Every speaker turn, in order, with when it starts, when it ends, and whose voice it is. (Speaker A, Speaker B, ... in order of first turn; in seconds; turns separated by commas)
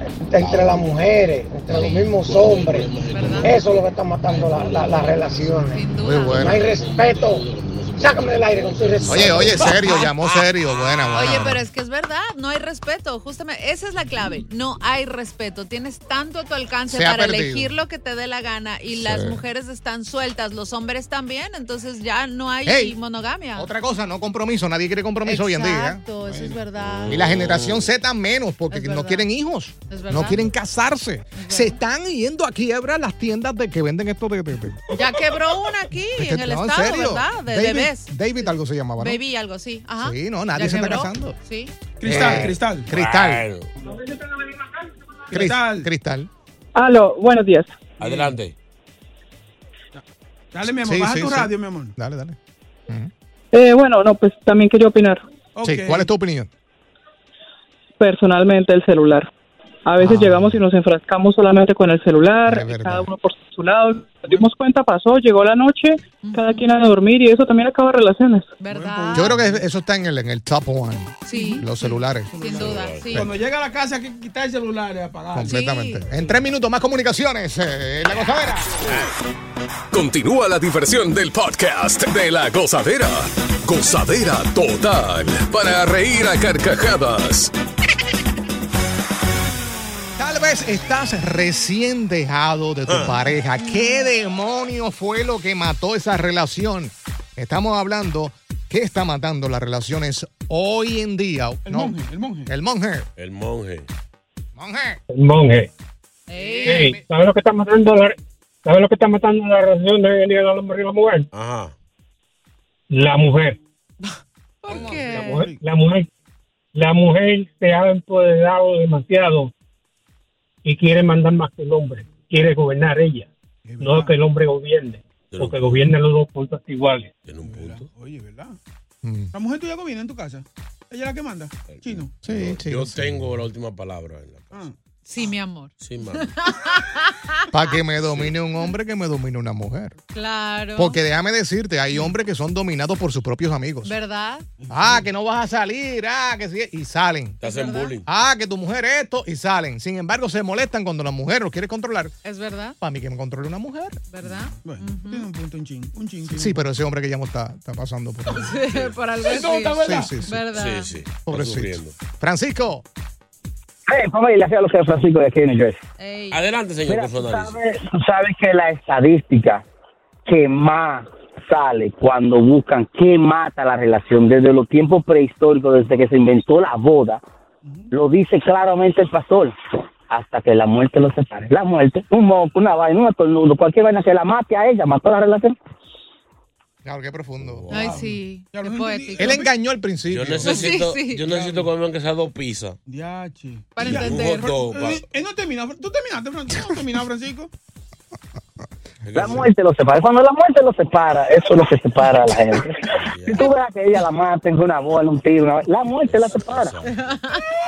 Speaker A: 0.2-9.6, Speaker B: 0.4-0.8, Speaker B: 1.7-5.5, Speaker C: 3.1-3.6, Speaker C: 5.7-6.5, Speaker D: 6.0-6.6, Speaker B: 6.6-11.3, Speaker D: 9.1-11.6, Speaker C: 11.1-23.7, Speaker D: 16.9-17.7, Speaker D: 18.9-19.4, Speaker D: 22.6-23.0, Speaker D: 23.6-26.2, Speaker C: 25.2-27.4, Speaker B: 26.8-27.9, Speaker D: 27.1-34.9, Speaker C: 28.7-29.3, Speaker C: 29.9-30.5, Speaker C: 31.3-31.8, Speaker C: 34.9-38.1, Speaker D: 36.1-39.2, Speaker C: 39.0-41.8, Speaker D: 40.0-41.4, Speaker E: 42.0-42.9, Speaker D: 42.0-43.5, Speaker B: 42.9-43.7, Speaker E: 45.3-45.9, Speaker D: 45.3-46.3, Speaker F: 46.8-47.8, Speaker B: 48.0-48.5, Speaker E: 48.0-48.4, Speaker E: 50.5-51.9, Speaker D: 50.6-52.4, Speaker F: 53.5-55.2, Speaker E: 55.5-56.1, Speaker D: 55.6-56.5, Speaker F: 58.0-59.3, Speaker F: 59.9-68.5, Speaker D: 60.0-60.6, Speaker D: 62.5-63.1, Speaker C: 66.2-66.7, Speaker C: 68.6-69.4, Speaker E: 68.7-69.6, Speaker D: 69.1-72.6, Speaker C: 71.3-73.3, Speaker E: 71.3-71.6, Speaker E: 72.3-75.6, Speaker B: 72.5-73.2, Speaker D: 75.3-78.8, Speaker C: 75.4-76.1, Speaker G: 79.9-87.5, Speaker D: 90.2-103.1, Speaker B: 92.9-93.1, Speaker C: 93.6-94.1, Speaker E: 101.7-102.5, Speaker B: 103.2-103.9, Speaker D: 104.5-105.0, Speaker H: 105.1-105.7, Speaker C: 106.3-107.0, Speaker H: 106.7-111.3, Speaker B: 111.3-111.7, Speaker H: 112.9-113.6, Speaker C: 114.0-115.5, Speaker E: 114.7-115.6, Speaker H: 115.3-116.1, Speaker H: 116.8-119.5, Speaker H: 120.7-123.3, Speaker E: 123.7-124.2, Speaker H: 123.8-127.1, Speaker B: 125.3-126.0, Speaker B: 127.3-127.9, Speaker E: 127.4-128.6, Speaker D: 129.0-129.3, Speaker E: 129.3-132.1, Speaker B: 131.7-134.6, Speaker D: 132.2-133.2, Speaker C: 135.1-137.8, Speaker B: 135.8-136.3, Speaker D: 137.5-140.0, Speaker B: 138.0-138.3, Speaker C: 140.1-141.0, Speaker D: 140.8-144.0, Speaker C: 143.8-144.5, Speaker E: 144.6-145.1, Speaker D: 144.7-147.4, Speaker B: 147.4-148.1, Speaker C: 147.4-148.0, Speaker D: 148.1-152.2, Speaker C: 152.2-152.8, Speaker D: 152.8-154.0, Speaker C: 154.1-155.3, Speaker E: 154.2-156.6, Speaker D: 156.3-158.6, Speaker C: 158.3-160.9, Speaker E: 159.2-160.1, Speaker D: 159.8-160.5, Speaker B: 160.5-161.9, Speaker D: 161.3-162.8, Speaker I: 163.9-165.8, Speaker C: 166.0-166.4, Speaker B: 166.3-167.6, Speaker I: 166.9-169.6, Speaker I: 170.3-177.2, Speaker E: 177.6-177.9, Speaker I: 177.9-179.5, Speaker I: 180.1-185.6, Speaker D: 186.8-187.7, Speaker B: 187.4-187.8, Speaker C: 187.7-189.5, Speaker E: 187.7-189.5, Speaker D: 189.2-190.6, Speaker B: 190.1-192.8, Speaker C: 190.4-191.2, Speaker E: 191.3-191.7, Speaker E: 192.9-197.5, Speaker C: 193.8-194.6, Speaker B: 193.8-195.1, Speaker B: 199.1-199.5, Speaker I: 199.1-206.8, Speaker B: 203.0-203.5, Speaker B: 206.0-207.1, Speaker C: 206.8-207.5